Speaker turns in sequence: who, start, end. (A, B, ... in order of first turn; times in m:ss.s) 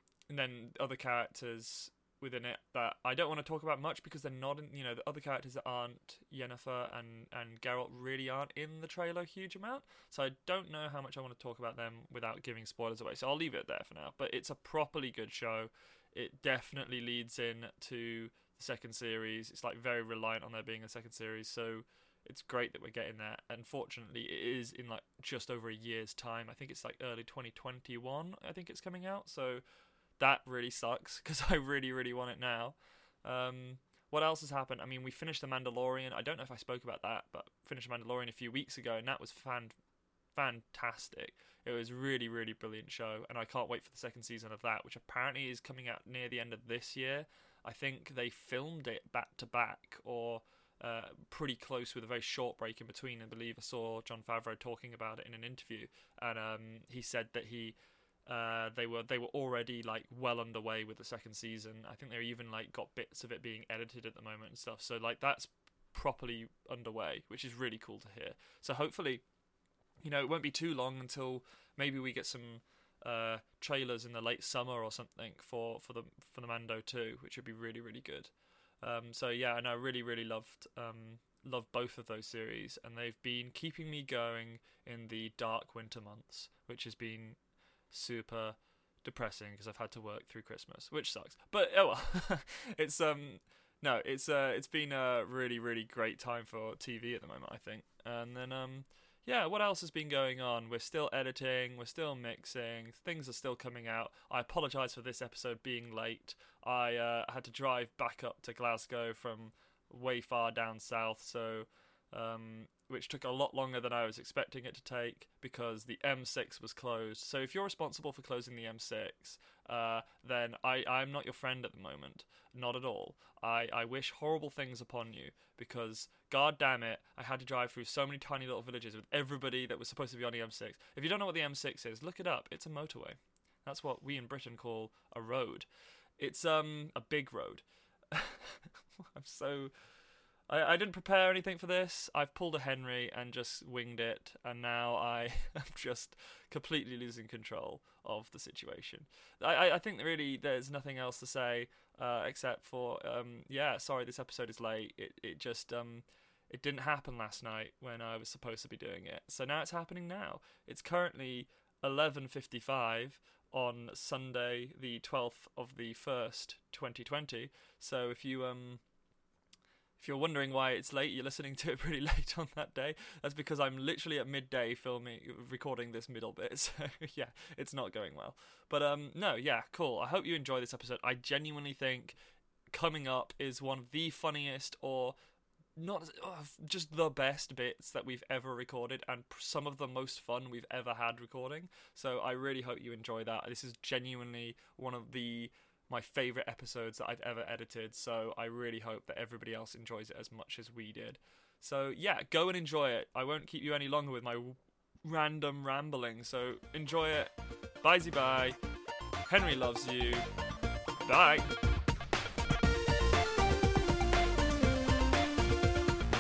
0:00.3-0:29.6 A
0:30.2-0:39.7 A
0:40.3-0:57.8 A
0:58.3-1:09.2 A
1:10.0-1:18.3 A
1:18.8-1:27.4 A
1:27.9-2:15.7 A
2:16.2-2:19.7 A
2:20.5-2:48.8 A
2:50.0-3:02.1 A
3:02.7-3:05.2 A
3:05.8-3:27.3 A
3:27.8-3:28.6 A
3:29.3-3:30.2 A
3:31.0-3:31.5 A